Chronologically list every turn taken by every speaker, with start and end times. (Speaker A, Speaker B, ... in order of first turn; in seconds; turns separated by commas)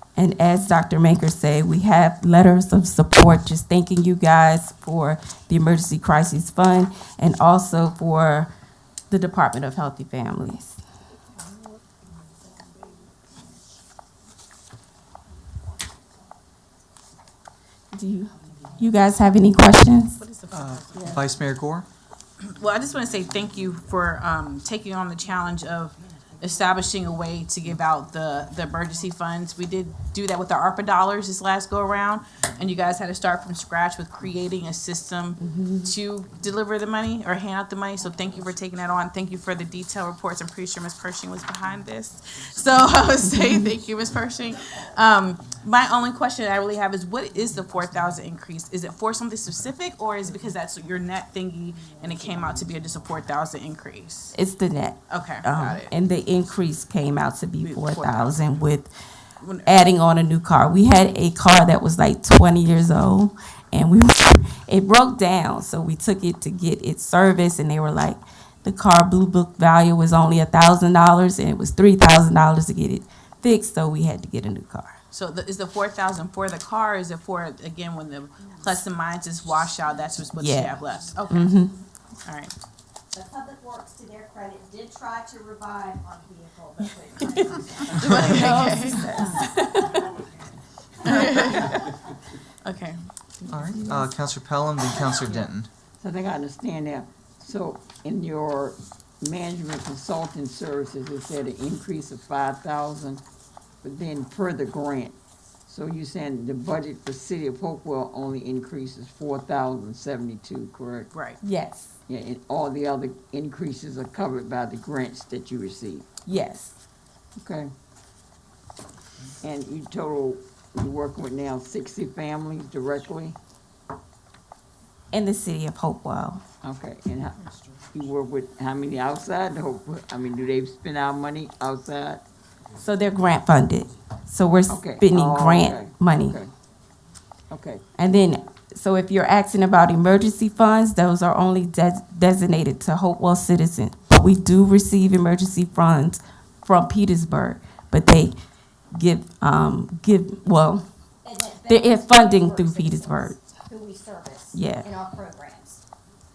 Speaker A: 0.2-8.5, Speaker A: 9.1-10.8, Speaker A: 17.9-20.2, Speaker B: 20.2-21.2, Speaker C: 20.5-21.9, Speaker B: 22.4-54.3, Speaker A: 35.4-35.9, Speaker A: 54.3-58.9, Speaker B: 55.1-55.9, Speaker B: 57.6-58.5, Speaker B: 59.4-59.8, Speaker A: 59.6-75.0, Speaker B: 75.1-81.6, Speaker A: 80.4-80.8, Speaker A: 81.3-81.7, Speaker B: 82.2-82.5, Speaker D: 83.1-90.2, Speaker B: 87.6-90.0, Speaker C: 88.1-88.5, Speaker A: 88.1-89.6, Speaker B: 91.0-92.0, Speaker D: 91.1-91.6, Speaker B: 92.6-93.9, Speaker C: 93.5-95.7, Speaker E: 96.0-103.2, Speaker E: 103.8-111.1, Speaker B: 111.1-111.4, Speaker A: 111.4-111.9, Speaker E: 112.1-116.1, Speaker A: 116.3-116.7, Speaker E: 117.4-117.7, Speaker E: 119.4-123.4, Speaker A: 125.1-126.4, Speaker E: 126.6-132.2, Speaker A: 132.8-136.4, Speaker E: 134.7-136.5, Speaker E: 137.5-137.8, Speaker A: 138.0-148.4, Speaker A: 148.9-150.9, Speaker D: 151.2-155.8, Speaker A: 151.7-153.4, Speaker A: 154.5-154.9